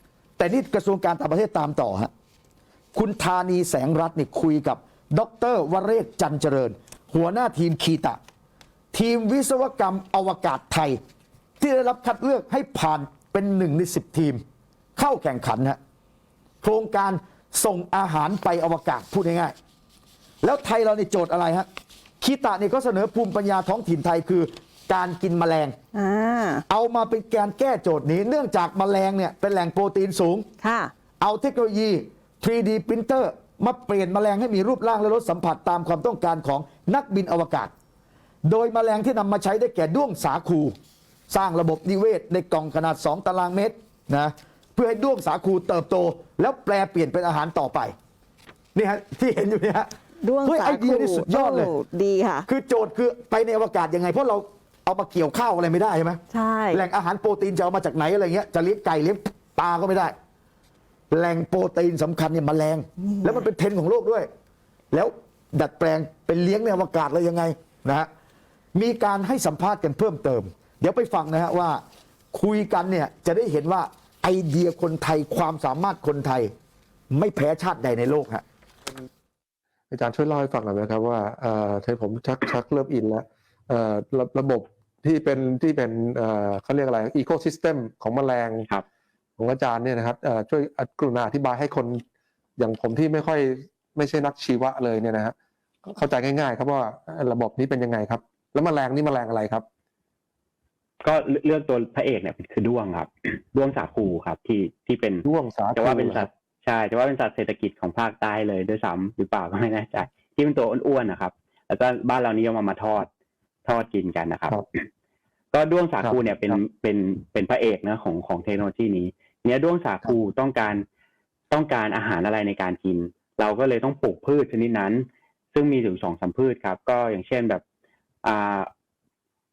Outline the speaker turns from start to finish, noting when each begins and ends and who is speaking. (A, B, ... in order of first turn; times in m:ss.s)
0:00.4-0:02.1 A
0:02.9-0:08.2 A
0:08.9-0:11.0 A
0:11.6-0:14.4 A
0:15.0-0:15.8 A
0:16.6-0:19.5 A
0:20.4-0:21.7 A
0:22.2-0:25.8 A
0:25.9-0:26.6 B
0:26.7-0:30.5 A
0:30.6-0:30.9 B
0:31.2-0:37.7 A
0:38.4-0:40.7 A
0:41.3-0:47.9 A
0:48.7-0:49.9 A
0:50.2-0:52.5 B
0:50.4-0:51.7 A
0:52.5-1:00.1 A
0:56.3-0:56.8 B
1:01.1-1:04.3 A
1:03.0-1:03.5 B
1:04.9-1:08.1 A
1:08.7-1:11.8 A
1:12.3-1:16.5 A
1:17.1-1:18.4 A
1:19.9-1:28.7 C
1:29.4-1:32.0 C
1:32.6-1:39.6 C
1:41.0-1:53.1 D
1:45.2-1:46.3 C
1:53.6-1:54.8 D
1:55.5-2:00.8 D
1:56.0-1:56.6 C
2:01.5-2:07.6 D
2:08.2-2:08.7 D